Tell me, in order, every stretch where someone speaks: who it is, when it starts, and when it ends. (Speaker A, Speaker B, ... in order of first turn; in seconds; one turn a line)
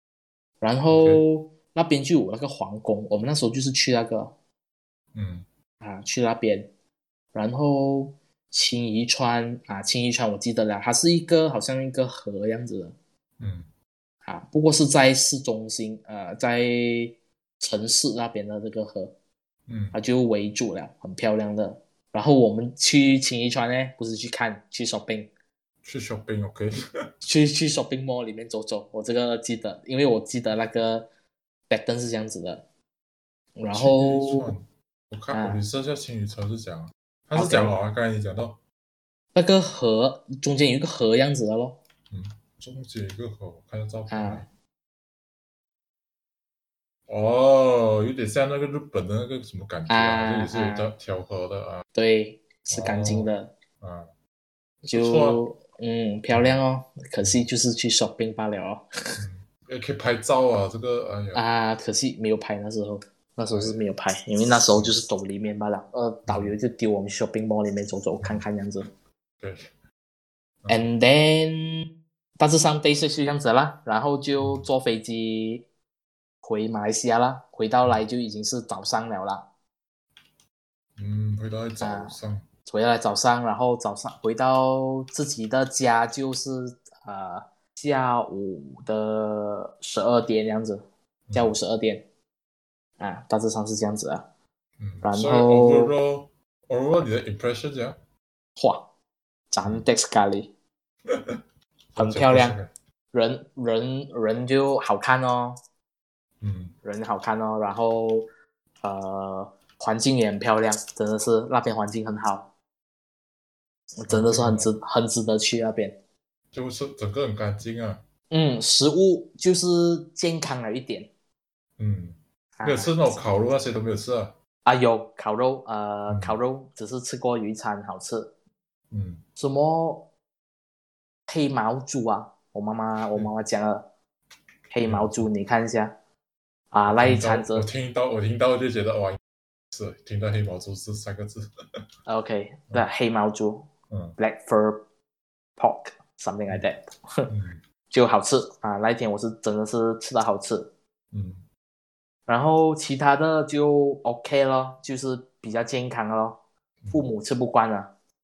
Speaker A: 0.6-4.3
Speaker B: 0.9-1.2
Speaker B: 5.1-5.5
Speaker A: 5.8-6.7
Speaker A: 7.3-12.9
Speaker B: 13.4-13.7
Speaker A: 14.2-19.1
Speaker B: 19.7-19.9
Speaker A: 19.9-25.3
Speaker B: 25.8-26.7
Speaker A: 27.2-31.1
Speaker A: 31.7-32.6
Speaker A: 33.6-34.5
Speaker B: 33.7-38.6
Speaker A: 35.3-35.6
Speaker A: 37.3-37.7
Speaker A: 39.3-41.8
Speaker B: 42.1-44.5
Speaker A: 44.1-44.4
Speaker B: 47.1-51.8
Speaker A: 49.9-50.9
Speaker A: 51.9-53.5
Speaker B: 52.7-54.1
Speaker A: 54.8-59.1
Speaker B: 54.9-55.4
Speaker B: 56.3-56.6
Speaker B: 59.2-61.4
Speaker A: 61.3-68.9
Speaker B: 66.3-66.5
Speaker B: 69.4-69.7
Speaker A: 70.7-71.9
Speaker A: 72.4-75.6
Speaker B: 74.4-74.7
Speaker A: 76.4-79.4
Speaker B: 81.0-82.5
Speaker A: 81.8-82.2
Speaker A: 82.7-92.0
Speaker B: 91.3-91.5
Speaker A: 93.0-94.2
Speaker B: 94.8-98.0
Speaker A: 95.0-95.9
Speaker A: 98.6-98.8
Speaker A: 99.5-100.5
Speaker B: 101.1-101.4
Speaker B: 101.9-102.7
Speaker A: 102.0-102.6
Speaker A: 103.1-105.6
Speaker B: 106.4-106.7
Speaker A: 106.8-108.2
Speaker A: 108.8-112.5
Speaker A: 114.0-115.9
Speaker B: 114.1-114.7
Speaker B: 116.5-118.0
Speaker A: 118.3-121.1
Speaker B: 121.8-124.3
Speaker A: 122.6-123.2
Speaker A: 124.6-128.3
Speaker B: 126.1-126.4
Speaker B: 128.9-129.2
Speaker A: 129.4-130.0
Speaker A: 131.3-133.8
Speaker A: 134.7-135.9
Speaker B: 134.8-135.2
Speaker A: 136.7-137.7
Speaker B: 136.9-139.2
Speaker B: 139.7-141.8
Speaker A: 142.1-144.8
Speaker B: 143.9-144.2
Speaker A: 145.6-147.3
Speaker B: 147.3-147.6
Speaker A: 147.9-150.7
Speaker B: 151.1-151.4
Speaker A: 152.3-156.4
Speaker A: 156.9-157.9